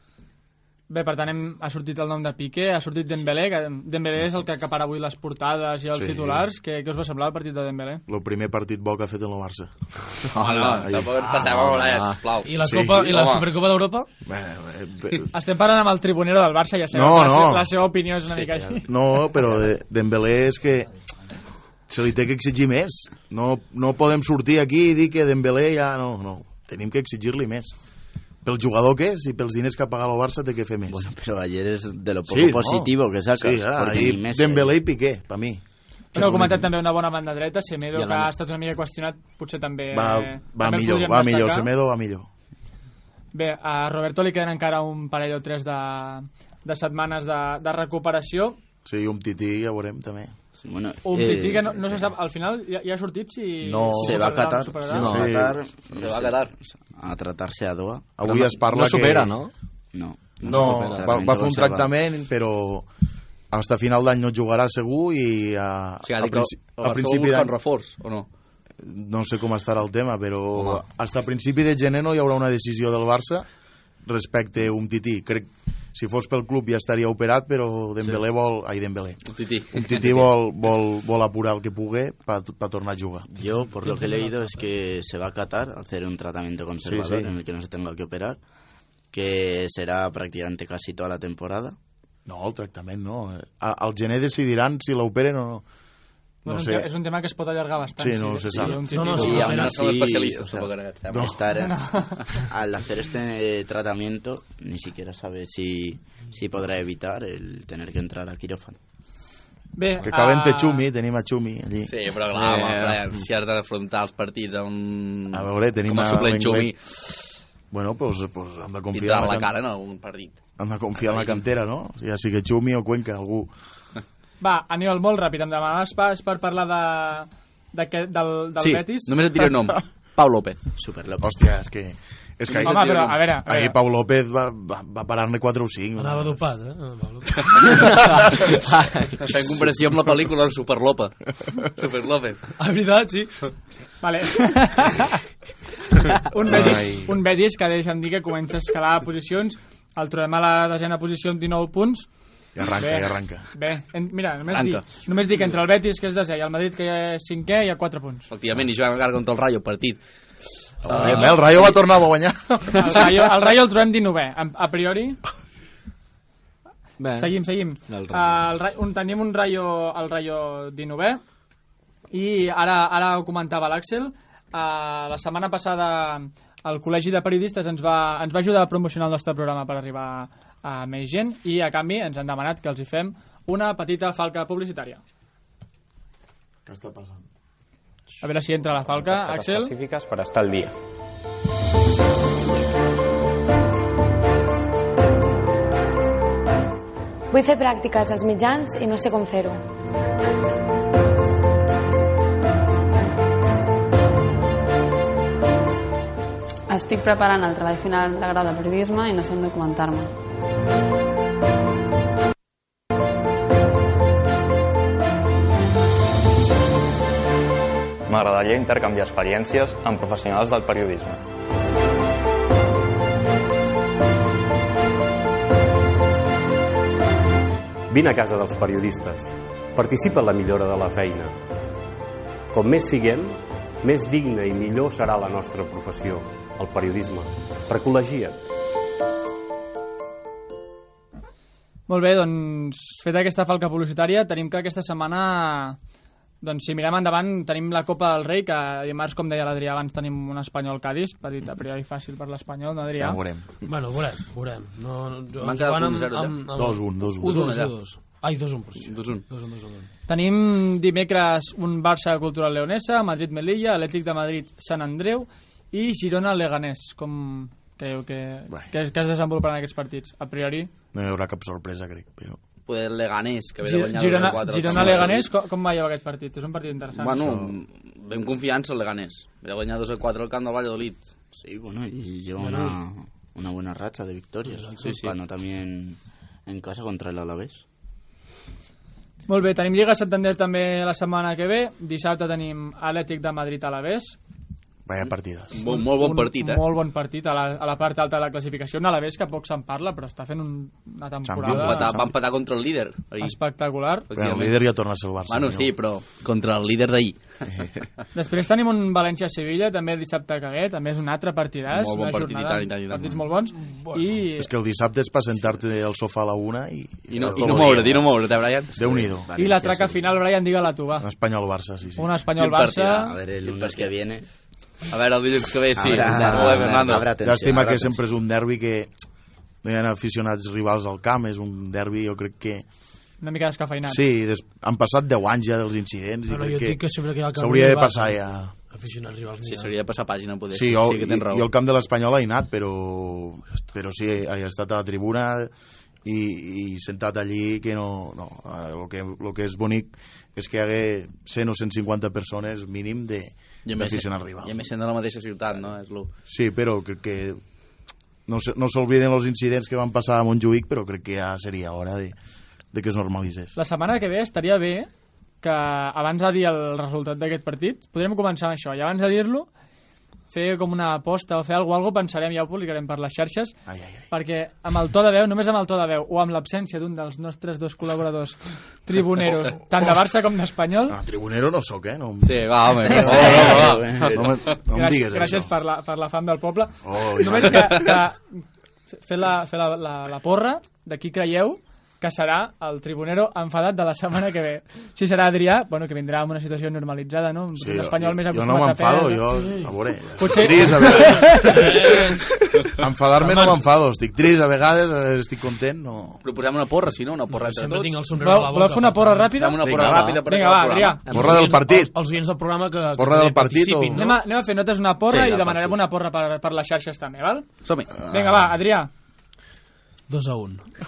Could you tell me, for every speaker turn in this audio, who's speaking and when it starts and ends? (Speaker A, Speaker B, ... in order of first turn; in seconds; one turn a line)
Speaker A: 0.9-8.0
Speaker B: 5.9-6.5
Speaker B: 8.1-11.1
Speaker C: 10.3-10.9
Speaker D: 10.4-13.4
Speaker E: 11.1-14.1
Speaker C: 11.6-12.2
Speaker B: 12.6-13.2
Speaker B: 14.2-15.3
Speaker A: 15.3-19.3
Speaker B: 16.9-17.7
Speaker B: 18.8-20.9
Speaker B: 21.9-27.7
Speaker B: 28.4-31.1
Speaker F: 30.9-34.8
Speaker B: 32.2-35.6
Speaker B: 36.1-36.7
Speaker A: 36.1-41.7
Speaker C: 37.9-38.3
Speaker B: 39.9-42.3
Speaker A: 43.3-48.6
Speaker B: 48.8-50.3
Speaker F: 50.6-52.1
Speaker A: 51.0-55.1
Speaker B: 53.6-55.6
Speaker F: 54.0-58.4
Speaker C: 54.9-55.4
Speaker D: 55.9-56.5
Speaker B: 58.2-59.5
Speaker C: 58.2-59.5
Speaker F: 59.9-61.9
Speaker C: 60.4-61.0
Speaker B: 60.4-62.9
Speaker B: 63.5-67.5
Speaker D: 66.0-68.2
Speaker B: 68.8-73.5
Speaker C: 70.5-70.8
Speaker B: 74.0-83.3
Speaker D: 79.3-80.3
Speaker F: 83.3-88.4
Speaker E: 83.5-84.7
Speaker B: 86.8-87.3
Speaker F: 89.1-91.8
Speaker B: 92.2-95.7
Speaker B: 96.4-96.9
Speaker A: 96.4-99.5
Speaker B: 98.0-99.0
Speaker E: 98.7-99.8
Speaker F: 99.1-108.8
Speaker D: 99.3-101.4
Speaker B: 101.1-101.4
Speaker A: 101.6-102.4
Speaker A: 109.8-110.8
Speaker B: 110.0-112.8
Speaker D: 111.8-116.8
Speaker C: 112.6-113.0
Speaker B: 115.3-116.7
Speaker B: 117.7-119.5
Speaker D: 118.9-120.4
Speaker B: 120.6-123.5
Speaker D: 121.0-121.4
Speaker A: 124.4-129.1
Speaker D: 128.6-130.6
Speaker F: 130.8-131.3
Speaker B: 131.2-136.4
Speaker D: 132.5-133.2
Speaker A: 132.6-133.8
Speaker E: 136.0-138.0
Speaker B: 137.3-137.8
Speaker C: 138.7-139.2
Speaker D: 139.2-142.4
Speaker E: 142.6-143.3
Speaker A: 144.0-145.1
Speaker A: 146.2-152.1
Speaker B: 146.5-147.1
Speaker B: 152.5-153.5
Speaker A: 152.8-158.3
Speaker D: 154.5-154.8
Speaker D: 158.3-160.0
Speaker D: 160.8-161.6
Speaker B: 160.8-163.1
Speaker A: 162.8-165.2
Speaker C: 167.0-168.5
Speaker A: 167.2-171.2
Speaker A: 172.1-185.0
Speaker B: 186.6-187.2
Speaker A: 188.2-189.7
Speaker G: 188.7-190.8
Speaker H: 197.3-199.6
Speaker I: 206.7-210.1
Speaker J: 218.1-221.2
Speaker G: 227.9-231.3
Speaker G: 232.5-238.4
Speaker A: 241.9-245.8
Speaker A: 246.4-253.2
Speaker B: 252.9-253.6
Speaker E: 253.6-259.9
Speaker D: 255.4-256.4
Speaker B: 256.5-257.4
Speaker D: 257.2-257.7
Speaker D: 258.8-259.2
Speaker A: 260.1-270.7
Speaker B: 270.9-272.4
Speaker D: 272.6-275.3
Speaker A: 273.6-277.3
Speaker D: 276.9-281.0
Speaker B: 277.2-277.5
Speaker F: 281.3-287.6
Speaker E: 282.4-282.8
Speaker E: 284.4-285.0
Speaker D: 284.8-285.1
Speaker A: 289.3-294.2
Speaker B: 294.9-295.6
Speaker D: 295.0-296.6
Speaker A: 295.6-301.9
Speaker B: 301.2-302.1
Speaker D: 301.5-303.4
Speaker A: 303.2-304.1
Speaker D: 304.1-304.6
Speaker B: 304.1-305.7
Speaker D: 305.3-307.4
Speaker B: 307.4-307.7
Speaker A: 308.1-314.5
Speaker D: 311.7-313.2
Speaker E: 313.6-314.1
Speaker B: 314.4-319.3
Speaker D: 317.1-318.7
Speaker F: 317.2-318.1
Speaker F: 318.6-320.2
Speaker A: 319.4-321.1
Speaker B: 321.0-322.1
Speaker A: 322.0-323.1
Speaker D: 322.4-323.9
Speaker F: 323.0-324.2
Speaker D: 324.9-327.1
Speaker F: 325.8-328.0
Speaker B: 325.8-328.9
Speaker B: 329.6-332.6
Speaker A: 333.2-334.0
Speaker B: 333.8-338.6
Speaker E: 336.3-339.7
Speaker D: 339.4-341.5
Speaker B: 340.5-345.5
Speaker B: 346.0-354.6
Speaker D: 353.6-356.1
Speaker B: 356.3-357.4
Speaker B: 358.2-362.1
Speaker B: 362.7-363.5
Speaker A: 363.6-364.9
Speaker A: 365.4-369.5
Speaker A: 370.3-381.0
Speaker B: 373.6-374.1
Speaker B: 380.9-385.5
Speaker D: 382.2-384.6
Speaker F: 382.9-384.3
Speaker A: 383.2-383.5
Speaker A: 384.7-399.3
Speaker B: 386.8-387.9
Speaker B: 397.6-402.0
Speaker E: 399.3-399.7
Speaker A: 400.2-401.7
Speaker E: 400.8-402.5
Speaker B: 402.6-406.2
Speaker E: 403.2-403.6
Speaker D: 406.2-408.0
Speaker E: 407.3-409.4
Speaker A: 408.2-411.1
Speaker D: 409.4-411.0
Speaker C: 409.6-410.2
Speaker E: 411.1-414.2
Speaker C: 411.1-411.4
Speaker B: 411.1-411.9
Speaker B: 413.0-414.0
Speaker A: 413.9-417.5
Speaker C: 415.1-415.8
Speaker D: 417.6-418.0
Speaker A: 418.0-418.9
Speaker E: 420.1-420.7